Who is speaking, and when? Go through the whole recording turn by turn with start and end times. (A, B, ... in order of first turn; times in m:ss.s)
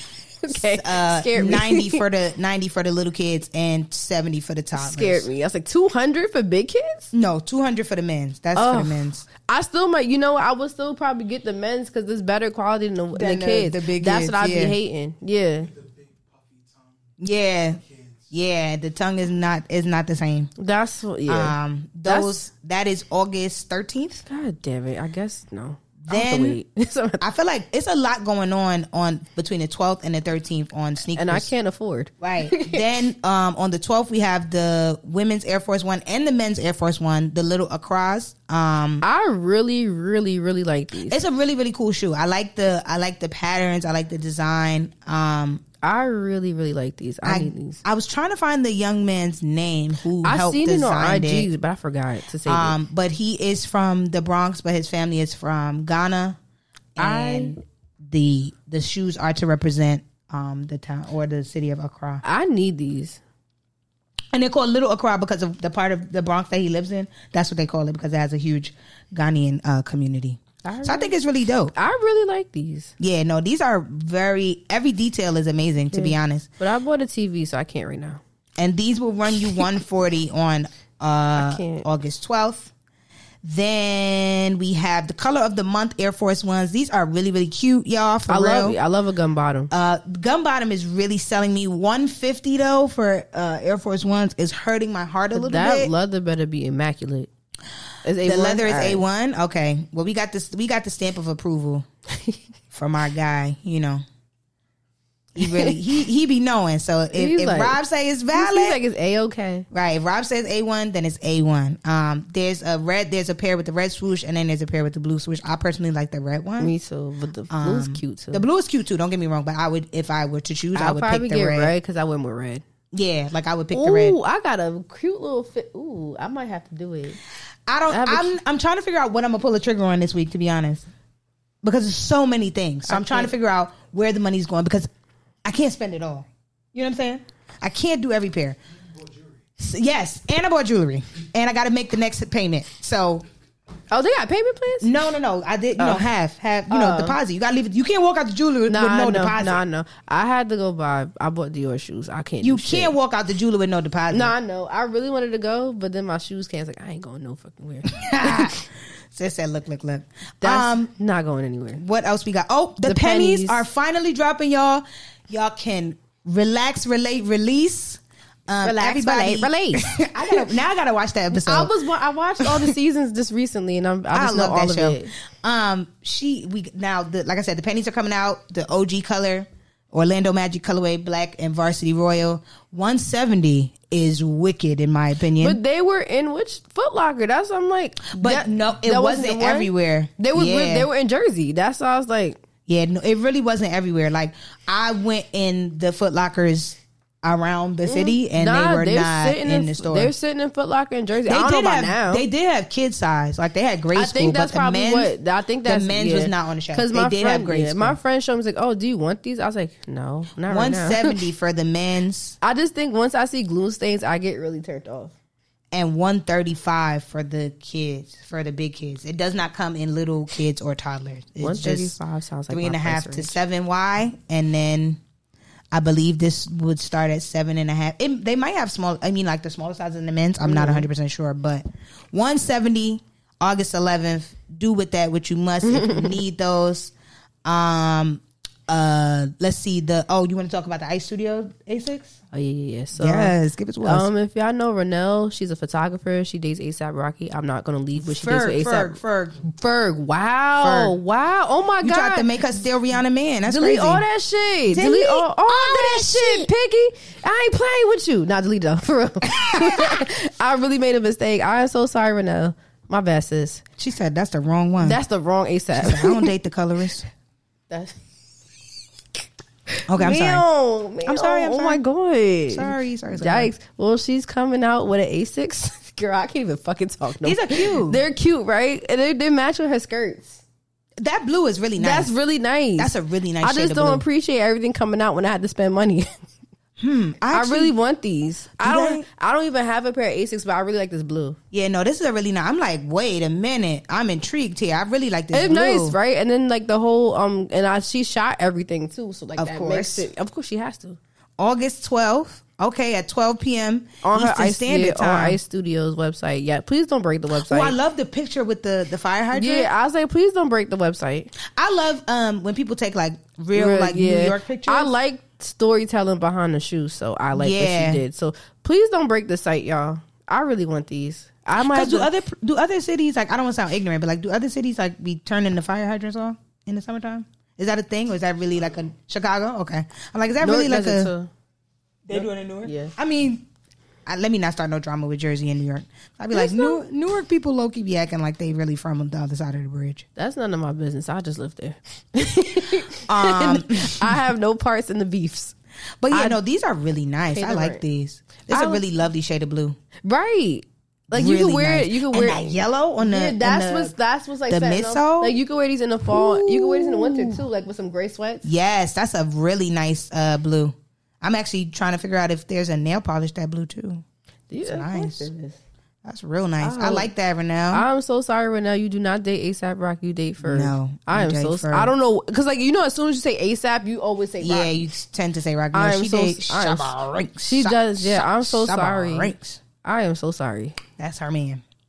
0:00.4-0:02.0 A
0:00.5-0:05.2 B
0:04.8-0:07.1 A
0:07.1-0:09.2 B
0:08.5-0:15.7 A
0:13.1-0:14.8 B
0:15.6-0:17.1 C
0:17.2-0:20.5 B
0:17.6-0:18.3 C
0:20.6-0:22.4 A
0:21.3-0:24.2 B
0:24.3-0:27.2 A
0:26.0-0:26.6 B
0:27.2-0:31.5 B
0:31.1-0:32.8 A
0:32.2-0:39.0 B
0:39.0-0:41.2 A
0:41.1-0:45.6 B
0:45.8-0:47.8 A
0:47.2-0:51.5 B
0:50.2-0:52.8 A
0:52.4-0:56.4 B
0:57.0-1:02.2 B
0:57.0-0:57.6 A
1:02.2-1:03.2 A
1:04.3-1:11.7 B
1:10.6-1:11.1 A
1:11.7-1:12.9 A
1:13.0-1:16.5 B
1:15.9-1:18.2 A
1:18.6-1:22.7 B
1:21.3-1:21.8 A
1:23.4-1:28.8 B
1:28.3-1:29.7 A
1:29.7-1:35.9 B
1:35.3-1:37.3 A
1:38.0-1:39.0 A
1:38.2-1:41.8 B
1:42.7-1:44.0 B
1:45.4-1:48.8 B
1:45.4-1:45.8 A
1:47.1-1:47.8 A
1:48.3-1:49.6 A
1:49.7-1:56.7 B
1:56.6-1:58.4 A
1:57.5-2:01.7 B
2:00.7-2:02.6 A
2:02.9-2:04.2 B
2:03.7-2:07.2 A
2:07.7-2:10.9 B
2:07.9-2:08.3 A
2:11.6-2:14.9 B
2:12.9-2:13.3 A
2:15.4-2:18.6 B
2:18.8-2:19.4 C
2:19.6-2:23.2 B
2:23.9-2:24.9 A
2:24.8-2:29.6 B
2:25.8-2:26.0 A
2:26.7-2:27.2 A
2:28.7-2:32.9 A
2:32.4-2:34.3 B
2:34.1-2:38.6 A
2:37.9-2:40.9 B
2:40.4-2:41.8 A
2:41.8-2:51.7 B
2:42.8-2:43.6 A
2:48.6-2:50.4 A
2:51.3-2:55.1 A
2:52.4-2:52.8 B
2:54.1-3:05.6 B
3:05.4-3:12.4 A
3:08.1-3:10.9 B
3:12.7-3:20.1 B
3:17.8-3:22.2 A
3:21.3-3:25.1 B
3:23.9-3:31.2 A
3:25.6-3:28.0 B
3:30.5-3:32.4 B
3:32.4-3:35.1 A
3:35.7-3:42.0 B
3:41.4-3:43.4 A
3:42.5-3:45.0 B
3:45.7-3:56.9 B
3:50.4-3:50.8 A
3:55.6-3:56.2 A
3:57.4-4:02.2 B
4:02.3-4:12.4 A
4:02.9-4:04.1 B
4:08.0-4:09.4 B
4:10.6-4:10.9 B
4:11.8-4:14.0 B
4:13.4-4:23.6 A
4:14.7-4:16.5 B
4:19.3-4:20.0 B
4:23.8-4:25.0 B
4:24.8-4:26.3 A
4:25.8-4:27.1 B
4:27.7-4:27.9 A
4:29.8-4:40.4 A
4:29.9-4:30.4 B
4:31.0-4:31.8 B
4:32.5-4:33.5 B
4:37.2-4:38.0 B
4:41.0-4:42.1 B
4:41.8-4:46.2 A
4:42.8-4:44.0 B
4:46.8-4:47.7 B
4:47.3-4:51.4 A
4:48.6-4:49.0 B
4:51.5-4:56.0 B
4:55.3-5:01.0 A
4:59.4-5:00.1 B
5:01.4-5:05.4 B
5:04.0-5:07.7 A
5:07.3-5:09.7 B
5:09.3-5:11.3 A
5:11.4-5:14.9 B
5:13.5-5:22.1 A
5:17.3-5:18.0 B
5:21.6-5:31.1 B
5:30.4-5:31.3 A
5:32.1-5:33.5 B
5:32.1-5:32.9 A
5:34.0-5:40.0 B
5:36.3-5:36.8 A
5:40.2-5:45.5 A
5:43.0-5:44.2 B
5:46.0-5:49.8 B
5:46.1-5:46.4 A
5:47.3-5:47.8 A
5:48.5-5:48.8 A
5:50.0-5:52.4 A
5:51.1-5:53.9 B
5:53.0-5:58.5 A
5:54.5-5:55.3 B
5:56.1-5:57.4 B
5:58.4-6:04.0 B
6:04.5-6:05.6 A
6:04.6-6:05.3 B
6:06.0-6:07.8 B
6:06.6-6:07.1 A
6:07.7-6:14.8 A
6:10.4-6:11.9 B
6:14.4-6:19.6 B
6:15.7-6:20.8 A
6:21.0-6:21.6 B